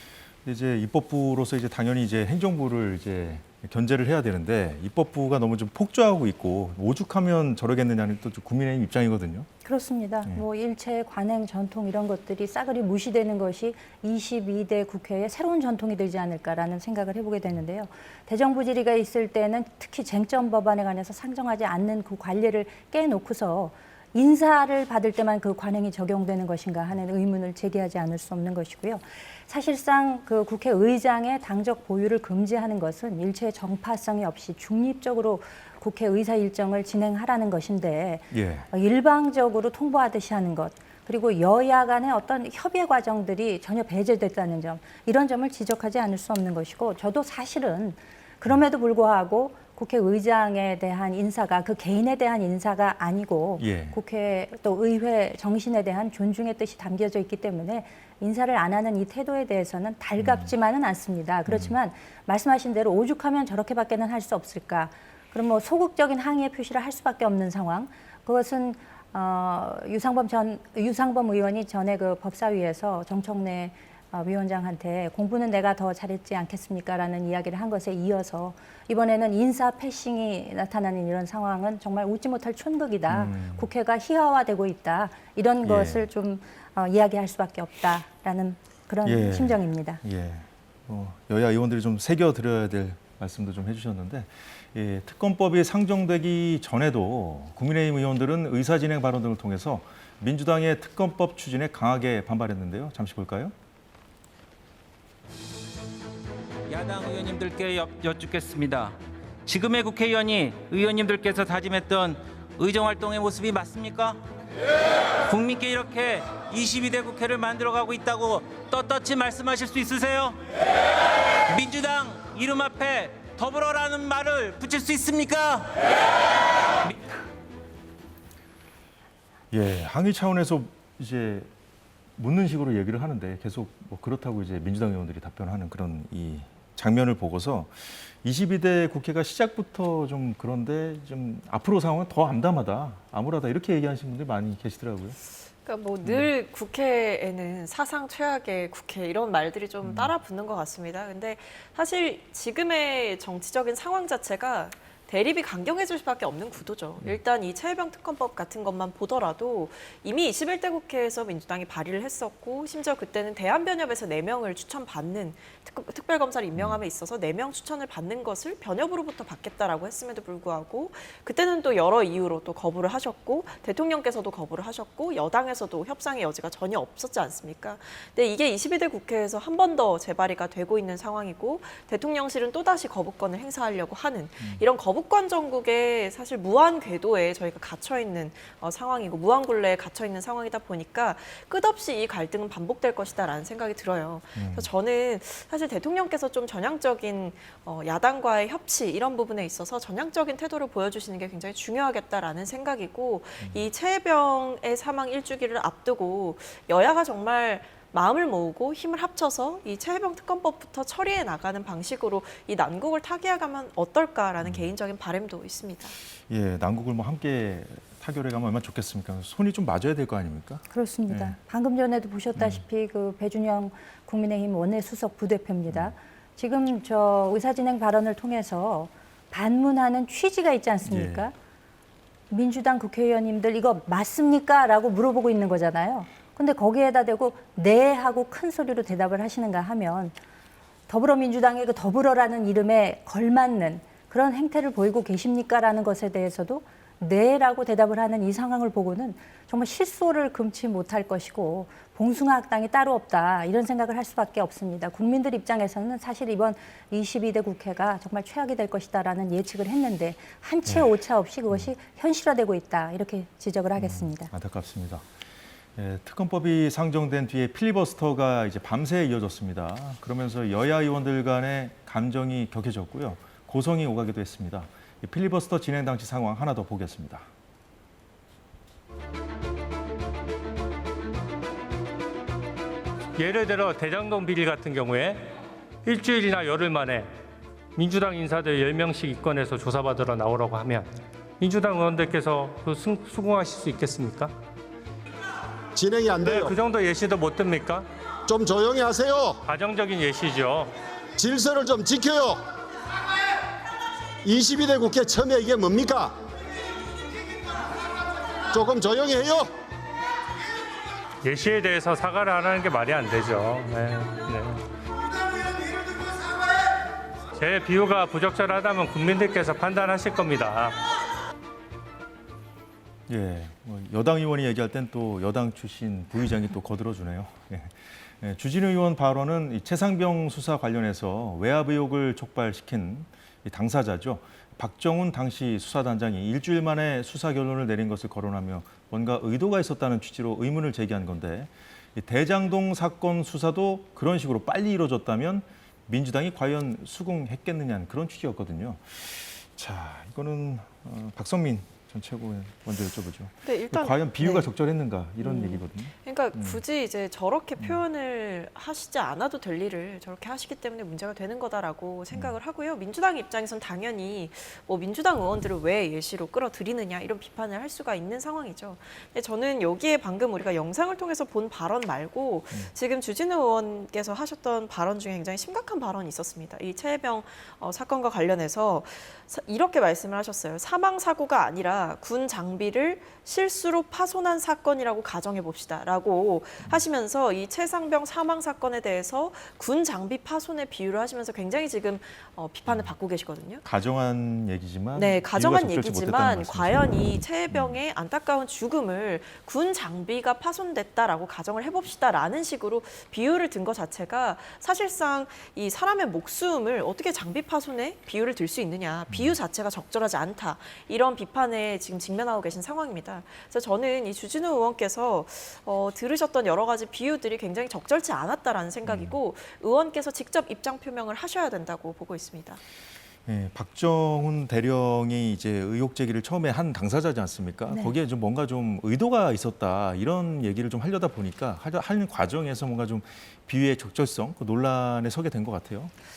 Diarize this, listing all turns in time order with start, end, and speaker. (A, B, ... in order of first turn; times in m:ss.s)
0:00.4-0:09.5 A
0:09.6-1:30.0 B
0:38.3-0:38.7 A
0:53.6-0:54.0 A
1:00.2-1:00.5 A
1:01.5-1:01.7 A
1:23.1-1:23.7 A
1:25.6-1:26.1 A
1:29.0-1:43.5 A
1:46.7-1:54.2 C
1:55.3-2:00.4 C
2:01.5-2:05.8 C
2:09.5-2:11.5 A
2:12.2-2:25.2 A
2:25.6-3:36.0 D
2:29.8-2:30.1 A
3:14.4-3:14.7 A
3:34.4-3:34.7 A
3:36.3-3:41.4 A
3:40.7-3:51.3 B
3:42.4-3:42.6 A
3:45.7-3:45.9 A
3:50.9-3:51.3 A
3:52.3-4:00.2 B
4:00.9-4:24.3 B
4:23.8-4:25.0 A
4:25.8-4:37.3 A
4:43.2-4:45.3 E
4:45.8-4:47.1 E
4:47.8-4:54.4 E
4:55.8-4:56.6 F
4:56.2-4:57.9 E
4:58.3-4:59.4 F
4:59.4-5:00.7 E
5:01.2-5:02.4 F
5:04.2-5:06.2 F
5:08.5-5:09.5 F
5:11.2-5:14.6 E
5:17.4-5:20.8 E
5:23.1-5:56.6 A
5:53.4-5:54.5 D
5:55.2-6:33.6 D
6:33.6-6:37.8 A
6:35.0-7:02.6 D
6:49.1-6:49.4 A
6:58.9-6:59.2 A
7:03.3-7:15.9 A
7:07.7-7:08.0 B